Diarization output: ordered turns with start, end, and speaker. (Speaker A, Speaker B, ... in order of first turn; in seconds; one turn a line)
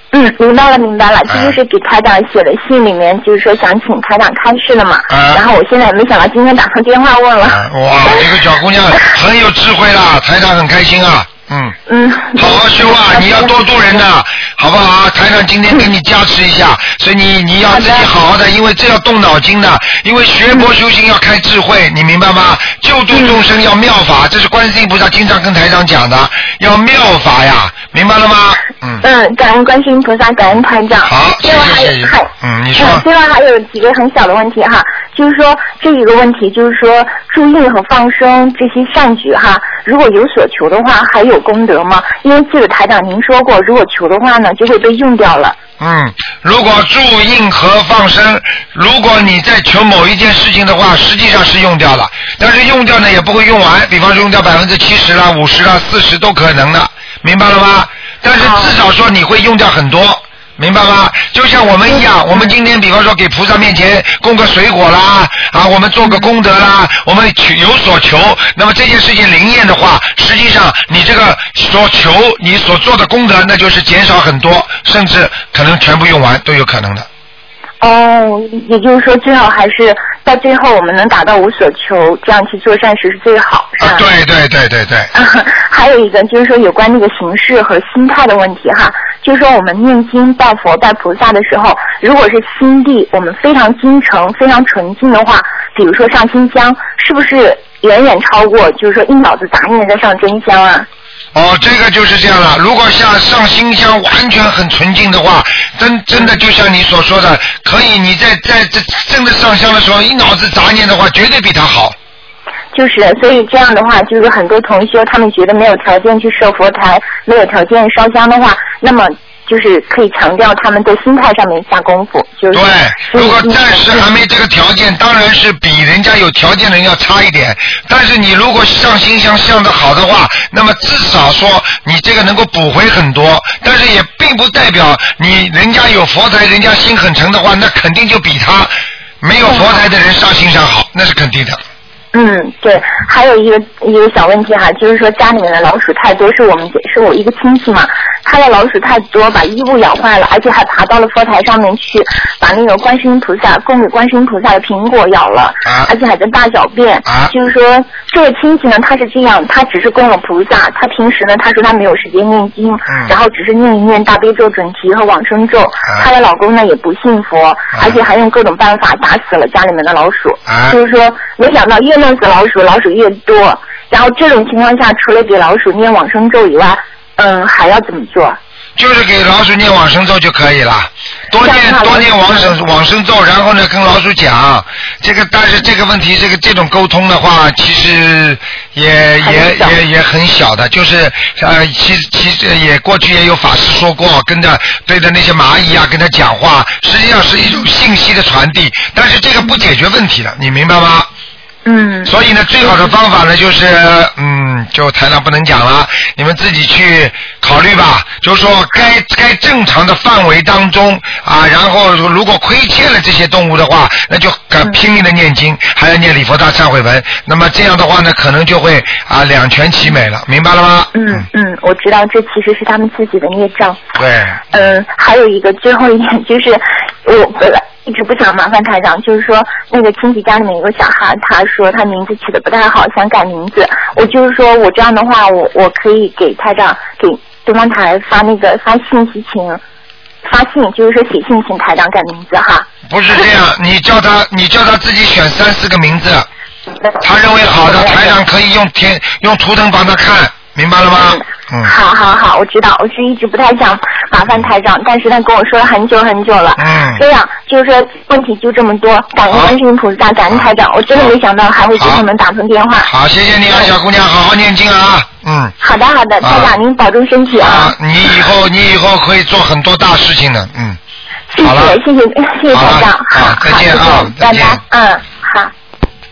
Speaker A: 0.1-8.3
Speaker B: 1.3-1.6
Speaker B: 5.1-5.4
Speaker B: 7.4-11.8
Speaker A: 11.9-14.0
Speaker B: 12.3-29.0
Speaker A: 17.7-18.1
Speaker A: 23.1-23.5
Speaker A: 29.0-45.6
Speaker B: 31.0-33.0
Speaker B: 45.8-77.1
Speaker A: 61.9-62.5
Speaker A: 66.0-66.3
Speaker A: 77.8-84.0
Speaker B: 83.8-85.1
Speaker A: 85.1-100.9
Speaker B: 101.3-112.0
Speaker A: 112.7-124.1
Speaker B: 122.5-141.6
Speaker A: 139.4-139.8
Speaker A: 142.1-178.4
Speaker B: 155.7-155.9
Speaker B: 157.1-157.3
Speaker B: 162.9-163.1
Speaker B: 170.5-170.8
Speaker B: 178.8-201.1
Speaker A: 181.4-182.6
Speaker A: 189.2-189.7
Speaker A: 201.7-202.1
Speaker B: 202.1-221.2
Speaker A: 220.9-223.8
Speaker B: 224.0-224.6
Speaker A: 224.5-239.6
Speaker A: 240.2-242.7
Speaker B: 242.9-246.3
Speaker A: 246.8-248.2
Speaker B: 247.0-251.7
Speaker A: 250.9-262.9
Speaker B: 256.6-257.0
Speaker B: 259.3-259.5
Speaker B: 260.3-261.1
Speaker B: 261.8-262.0
Speaker B: 262.9-265.5
Speaker A: 265.6-268.2
Speaker B: 266.2-266.5
Speaker B: 267.3-270.8
Speaker A: 271.3-275.5
Speaker B: 271.4-271.8
Speaker B: 272.5-274.6